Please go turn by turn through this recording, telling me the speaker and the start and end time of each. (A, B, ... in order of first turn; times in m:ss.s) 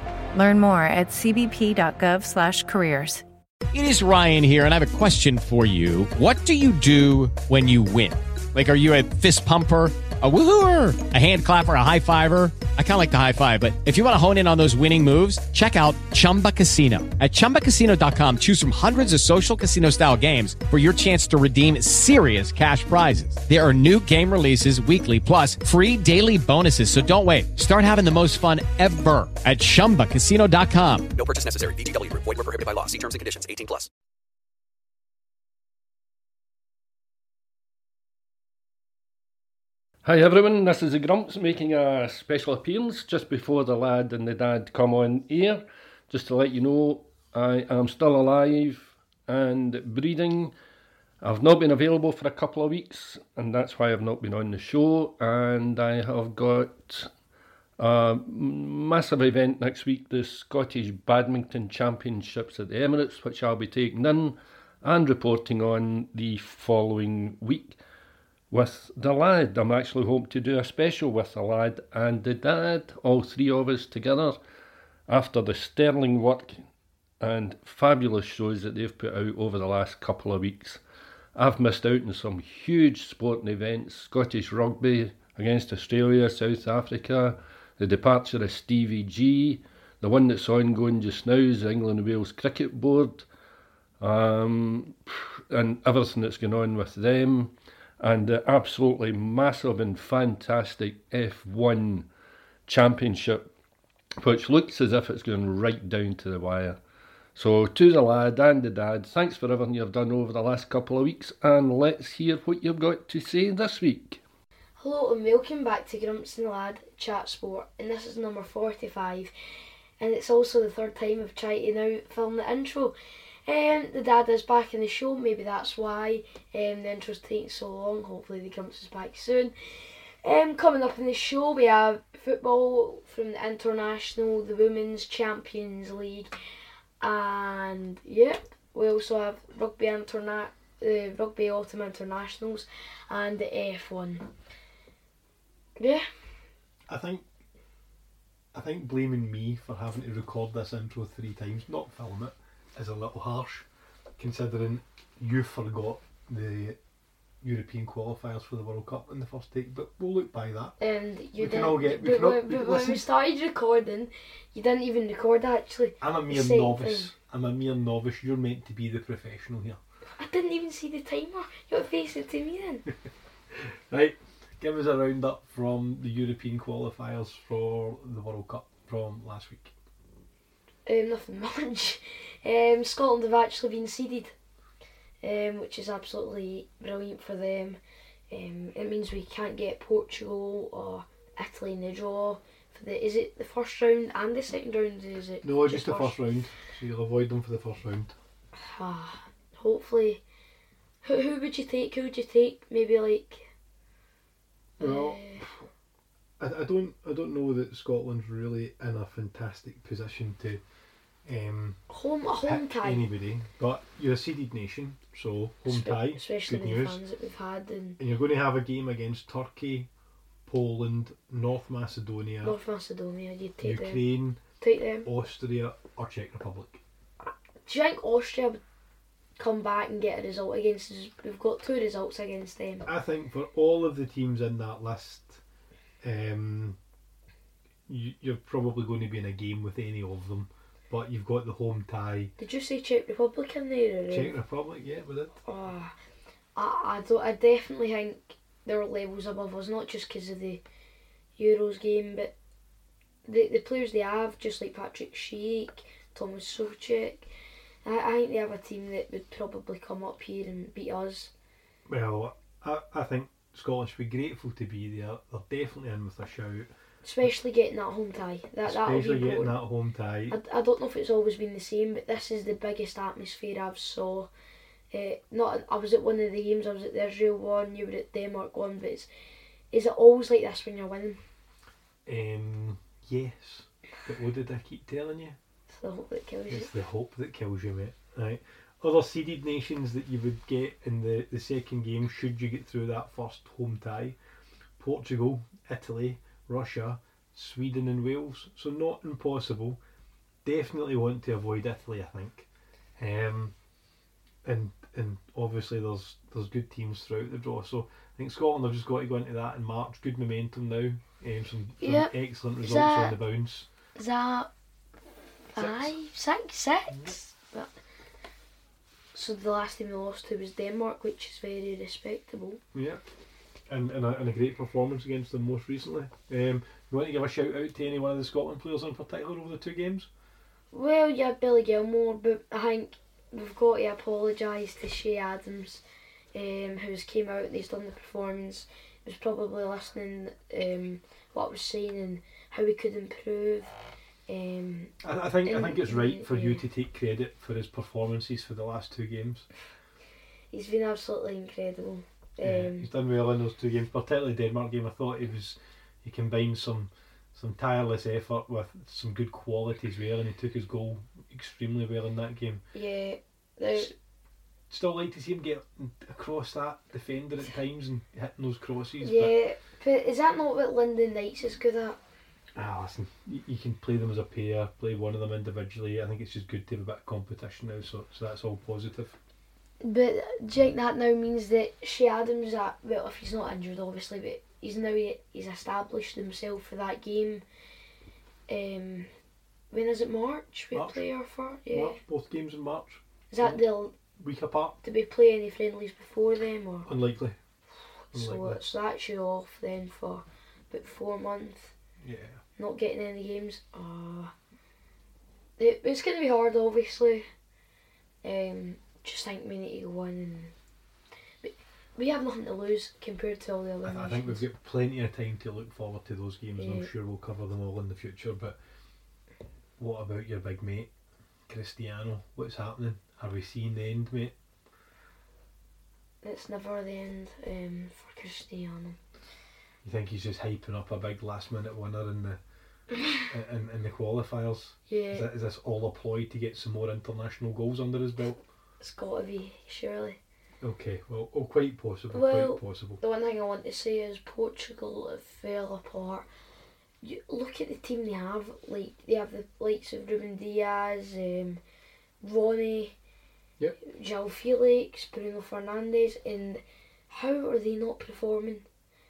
0:00.3-0:03.2 A
0:03.7-0:31.1 B
0:31.2-0:33.9 C
0:40.0-0:50.5 D
0:51.2-0:57.1 D
0:57.8-1:07.8 D
1:08.5-1:14.4 D
1:15.1-1:16.7 D
1:17.2-1:20.8 D
1:21.3-1:33.2 D
1:34.0-1:42.1 D
1:42.7-1:43.5 D
1:44.2-1:46.8 D
1:47.3-1:54.2 D
1:54.8-1:59.3 E
2:00.0-2:02.9 E
2:03.4-2:16.3 E
2:17.0-2:24.3 E
2:25.8-2:26.1 E
2:26.9-2:27.2 F
2:28.5-2:33.7 F
2:34.2-2:36.8 F
2:37.4-2:40.8 F
2:40.8-2:47.1 E
2:41.4-2:43.0 F
2:46.0-2:49.8 F
2:50.2-2:52.9 E
2:53.5-2:59.7 F
3:00.8-3:04.3 E
3:05.2-3:07.8 E
3:08.3-3:16.2 E
3:15.4-3:18.1 F
3:18.5-3:20.2 E
3:21.0-3:23.5 E
3:24.8-3:25.7 F
3:24.8-3:25.4 E
3:26.4-3:30.6 F
3:31.2-3:31.8 F
3:31.9-3:33.0 E
3:32.4-3:37.0 F
3:35.7-3:38.0 E
3:38.0-3:39.9 F
3:40.4-3:42.6 F
3:42.4-3:45.1 E
3:43.6-3:44.4 F
3:45.0-3:46.8 F
3:47.6-3:48.6 E
3:49.4-3:52.9 E
3:52.8-3:55.4 F
3:56.0-3:56.8 F
3:57.9-4:02.3 F
4:02.4-4:04.3 E
4:04.1-4:05.4 F
4:05.4-4:05.9 E
4:06.6-4:10.6 E
4:11.4-4:12.3 E
4:13.2-4:17.3 E
4:17.8-4:21.3 E
4:21.9-4:26.7 F
4:27.0-4:29.6 E
4:28.6-4:30.4 F
4:30.3-4:34.3 E
4:34.9-4:39.1 E
4:39.7-4:41.2 E
4:42.0-4:45.4 F
4:45.7-4:46.8 E
4:46.5-4:54.2 F
4:54.8-4:59.8 F
5:00.4-5:03.5 F
5:04.4-5:13.7 F
5:11.8-5:13.2 E
5:14.0-5:14.5 E
5:15.5-5:15.9 F
5:15.5-5:17.7 E
5:19.1-5:22.6 E
5:22.7-5:23.0 F
5:23.7-5:30.1 F
5:30.7-5:43.7 E
5:44.3-5:46.6 E
5:45.0-5:49.5 F
5:50.5-5:52.9 E
5:52.4-6:02.6 F
6:02.7-6:03.9 E
6:04.7-6:09.3 F
6:09.0-6:12.0 E
6:12.6-6:19.2 F
6:19.8-6:27.4 E
6:28.5-6:29.1 E
6:29.7-6:32.0 E
6:30.7-6:31.0 F
6:31.7-6:33.6 F
6:33.3-6:33.9 E
6:34.2-6:34.8 F
6:34.8-6:36.9 E
6:36.8-6:37.4 F
6:38.1-6:41.7 E
6:38.1-6:38.6 F
6:42.0-6:42.4 F
6:42.6-6:44.3 E
6:45.6-6:47.2 E
6:48.2-6:50.5 E
6:51.4-6:54.4 E
6:53.8-6:58.6 F
6:56.6-6:56.9 E
6:59.8-7:00.9 F
7:01.5-7:04.3 F
7:06.2-7:09.0 E
7:09.8-7:12.4 F
7:13.2-7:18.4 F
7:14.9-7:15.3 E
7:18.8-7:20.2 E
7:20.6-7:23.0 F
7:22.1-7:26.3 E
7:27.0-7:31.6 E
7:32.2-7:32.9 E
7:33.8-7:38.6 E